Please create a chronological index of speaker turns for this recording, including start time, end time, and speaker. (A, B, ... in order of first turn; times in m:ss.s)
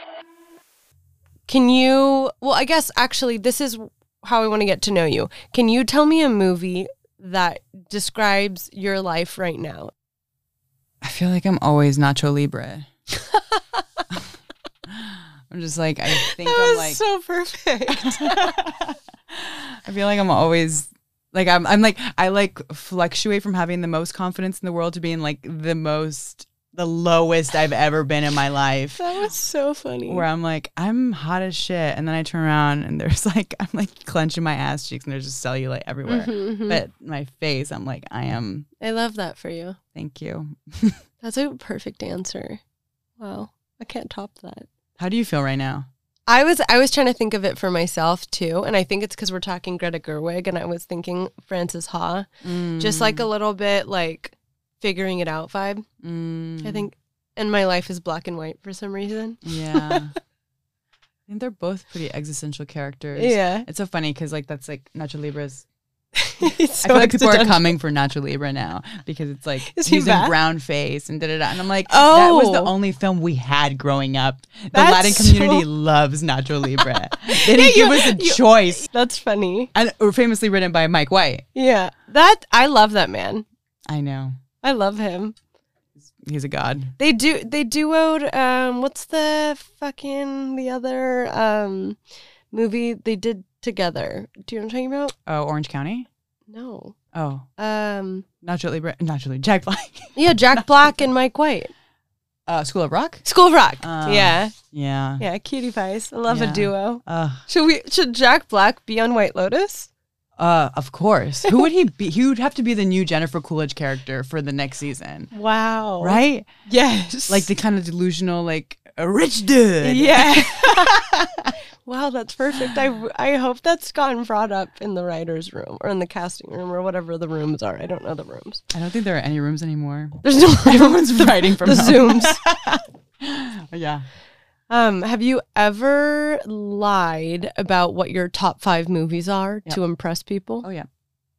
0:01.5-0:09.9 A
0:11.0-0:12.9 B
0:13.2-0:14.0 A
0:14.9-0:17.0 B
0:16.1-0:18.5 A
0:17.9-0:29.0 B
0:29.0-0:30.2 A
0:30.1-0:38.7 B
0:36.0-0:36.8 A
0:38.8-0:39.8 A
0:39.9-0:41.0 B
0:41.2-0:42.6 A
0:43.2-0:44.7 A
0:45.0-0:45.9 B
0:46.3-0:55.8 A
0:52.4-0:53.3 B
0:56.0-0:56.9 B
0:56.6-1:00.0 A
0:59.4-1:00.1 B
1:01.3-1:05.6 B
1:03.2-1:03.6 A
1:06.2-1:07.7 A
1:06.4-1:18.9 B
1:09.6-1:10.3 A
1:11.9-1:12.7 A
1:14.7-1:15.6 A
1:16.8-1:19.7 A
1:19.7-1:21.4 B
1:21.5-1:23.4 A
1:23.9-1:24.4 B
1:24.6-1:25.4 A
1:26.2-1:26.9 B
1:27.0-1:32.0 A
1:32.5-1:35.1 A
1:35.3-1:36.1 B
1:36.5-1:37.0 A
1:37.1-1:37.5 B
1:37.6-1:38.2 A
1:38.4-1:40.7 B
1:40.2-1:41.7 A
1:42.5-1:43.2 B
1:43.2-1:44.5 A
1:43.8-1:45.2 B
1:45.2-1:49.9 A
1:46.3-1:47.4 B
1:50.4-1:55.3 B
1:55.3-1:57.5 A
1:56.0-1:56.5 B
1:57.3-2:01.5 B
1:59.8-2:01.0 A
2:01.8-2:08.6 A
2:08.7-2:14.0 B
2:10.2-2:12.4 A
2:14.7-2:20.6 A
2:20.6-2:20.9 B